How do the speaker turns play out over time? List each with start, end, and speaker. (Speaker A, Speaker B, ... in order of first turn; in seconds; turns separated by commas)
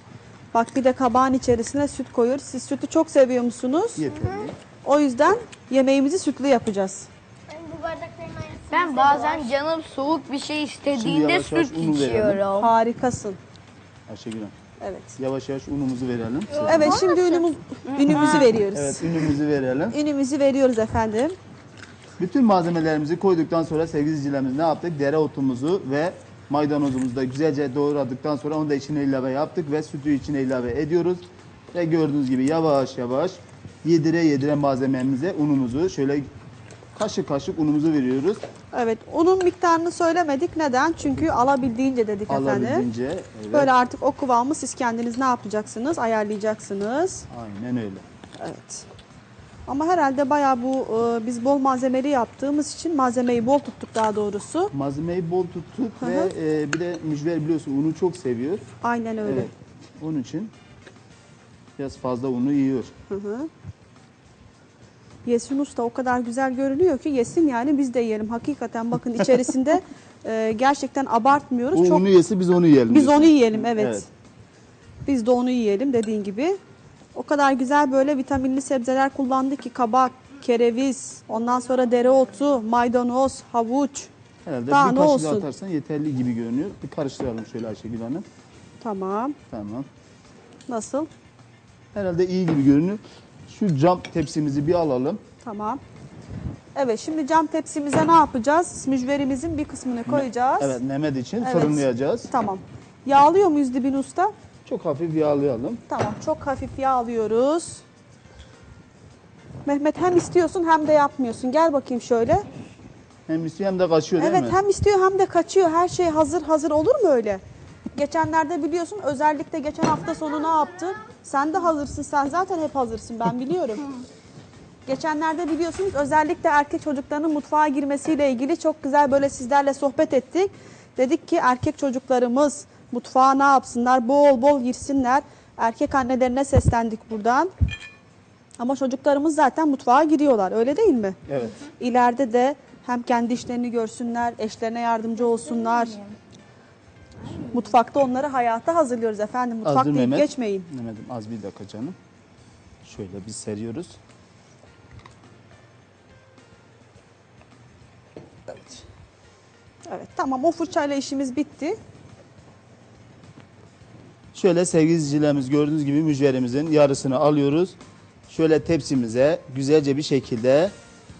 Speaker A: 0.5-4.0, Speaker B: 4.0-4.6, Speaker C: 4.2-4.5, Speaker A: 4.8-7.1, Speaker C: 7.5-9.5, Speaker D: 8.7-12.7, Speaker B: 10.9-12.4, Speaker A: 12.6-13.4, Speaker B: 14.1-14.5, Speaker A: 14.8-15.1, Speaker B: 15.2-17.0, Speaker C: 16.5-17.5, Speaker A: 16.7-19.2, Speaker D: 17.9-18.5, Speaker B: 18.1-20.0, Speaker A: 19.9-21.4, Speaker B: 22.2-36.3, Speaker B: 37.0-38.4, Speaker A: 38.7-42.9, Speaker B: 42.3-43.7, Speaker A: 43.5-47.3, Speaker B: 47.3-48.0, Speaker A: 48.4-48.9, Speaker A: 49.7-54.7, Speaker B: 54.7-58.6, Speaker A: 56.0-56.3, Speaker A: 58.8-59.5, Speaker B: 59.2-60.5, Speaker B: 61.8-62.9, Speaker A: 63.1-63.5, Speaker A: 65.2-72.0, Speaker B: 71.7-74.1, Speaker A: 72.9-74.1, Speaker A: 75.0-76.6, Speaker A: 77.2-84.1, Speaker B: 84.5-88.2, Speaker A: 84.7-85.5, Speaker A: 88.8-89.4, Speaker B: 89.5-89.9, Speaker A: 90.7-91.1, Speaker B: 91.9-95.2, Speaker A: 95.4-95.8, Speaker A: 96.8-100.8, Speaker B: 100.1-102.3, Speaker A: 101.4-104.3, Speaker B: 104.7-105.8, Speaker A: 105.9-107.8, Speaker A: 109.7-112.5, Speaker B: 113.3-114.6, Speaker A: 114.2-117.4, Speaker A: 117.9-123.8, Speaker C: 120.0-121.1, Speaker A: 124.9-137.5, Speaker A: 138.6-141.2, Speaker B: 141.3-141.6, Speaker A: 141.8-146.0, Speaker A: 147.5-150.7, Speaker B: 149.6-152.0, Speaker B: 152.8-154.0, Speaker A: 159.9-161.8, Speaker B: 164.3-167.8, Speaker B: 168.3-170.8